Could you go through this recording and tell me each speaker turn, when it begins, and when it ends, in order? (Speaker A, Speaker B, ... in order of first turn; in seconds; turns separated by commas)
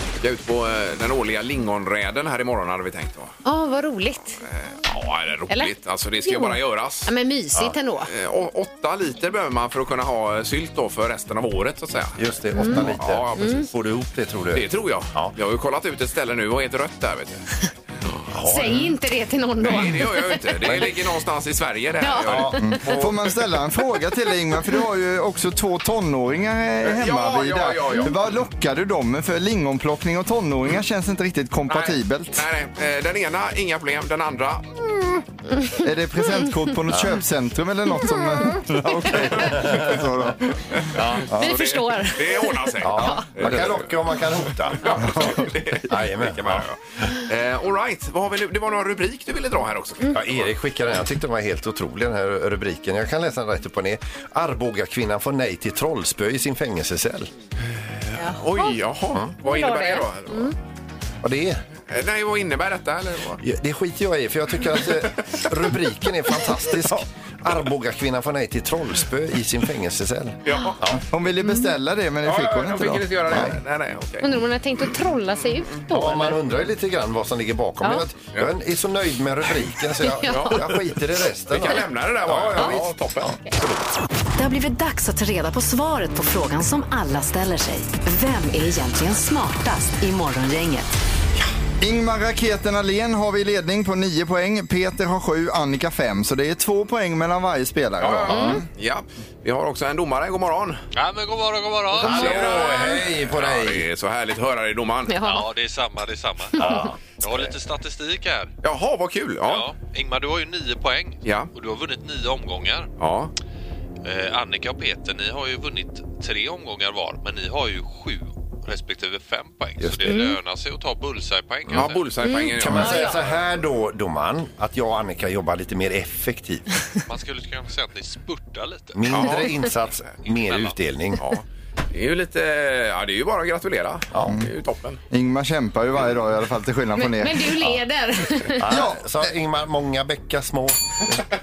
Speaker A: 0.2-3.3, Speaker B: 3.5-4.4, Speaker A: 4.4-7.1, Speaker B: 6.2-8.1, Speaker A: 8.1-13.7, Speaker C: 12.2-15.3, Speaker B: 12.5-13.7, Speaker A: 14.5-17.4, Speaker C: 18.3-19.0, Speaker B: 18.5-20.9, Speaker A: 19.6-23.0, Speaker B: 22.0-22.8, Speaker C: 22.2-23.1, Speaker D: 22.6-32.5, Speaker A: 26.8-28.2, Speaker A: 31.7-35.2, Speaker D: 35.8-40.4, Speaker A: 40.8-50.5, Speaker C: 41.0-41.3, Speaker B: 41.4-43.3, Speaker C: 42.8-45.3, Speaker C: 45.9-46.6, Speaker C: 50.1-57.3, Speaker A: 57.7-60.5, Speaker B: 58.2-58.8, Speaker B: 59.4-60.5, Speaker C: 61.2-61.6, Speaker A: 61.9-63.4, Speaker C: 63.4-71.0, Speaker A: 70.5-70.8, Speaker D: 71.1-73.5, Speaker B: 71.4-71.7, Speaker A: 72.2-74.3, Speaker B: 74.2-76.4, Speaker C: 75.9-83.3, Speaker B: 80.0-80.6, Speaker A: 80.3-80.6, Speaker A: 81.5-83.9, Speaker E: 84.4-90.9, Speaker D: 91.8-98.7, Speaker A: 98.0-100.8, Speaker B: 98.3-98.6, Speaker F: 100.9-102.8, Speaker C: 102.0-103.9, Speaker A: 102.0-105.2, Speaker B: 105.1-105.5, Speaker F: 105.2-108.5, Speaker B: 106.6-106.8, Speaker C: 106.6-107.5, Speaker A: 108.6-109.7, Speaker F: 109.4-112.9, Speaker A: 111.2-111.5, Speaker A: 113.0-113.3, Speaker F: 114.0-122.3, Speaker C: 119.8-120.2, Speaker B: 120.1-120.4, Speaker A: 121.7-123.2, Speaker B: 122.2-123.2, Speaker C: 122.5-126.8, Speaker F: 127.1-129.7, Speaker C: 128.9-131.2, Speaker A: 129.1-129.5, Speaker F: 130.2-130.8, Speaker A: 131.2-135.0, Speaker D: 135.1-137.6, Speaker B: 137.0-138.8, Speaker C: 138.6-141.1, Speaker D: 138.7-139.0